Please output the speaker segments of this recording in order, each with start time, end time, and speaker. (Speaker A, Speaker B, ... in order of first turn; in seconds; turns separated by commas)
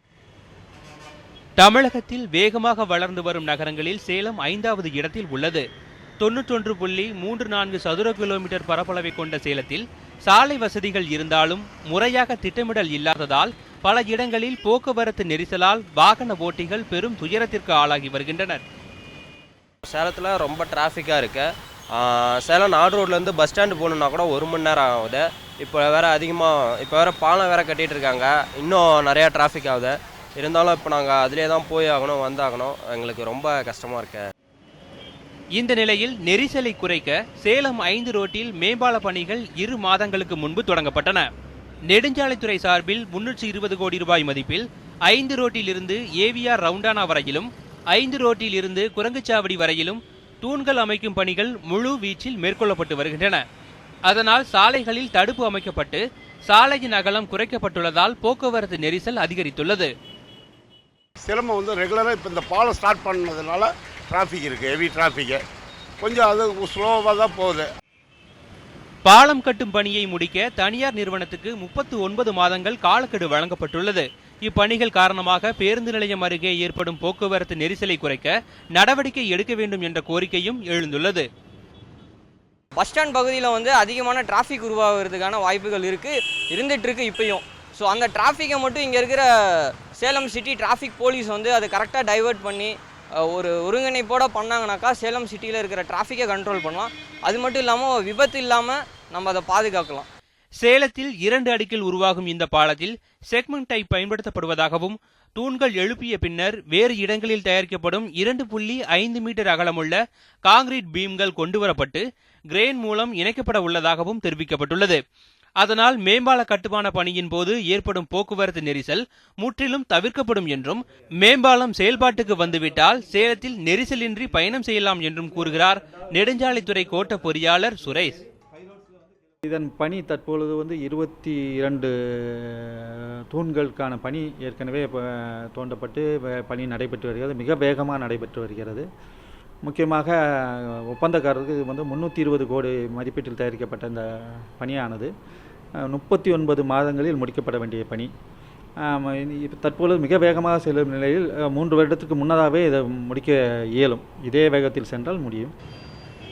Speaker A: 1.6-5.6, Speaker A: 6.2-18.6, Speaker B: 19.8-34.3, Speaker A: 35.5-41.3, Speaker A: 41.9-53.4, Speaker A: 54.1-59.9, Speaker C: 61.2-65.4, Speaker C: 66.0-67.7, Speaker A: 69.0-81.2, Speaker D: 82.8-100.1, Speaker A: 100.6-115.0, Speaker A: 115.6-128.2, Speaker E: 129.4-138.8, Speaker E: 139.6-145.1, Speaker E: 145.8-148.1, Speaker E: 148.8-155.5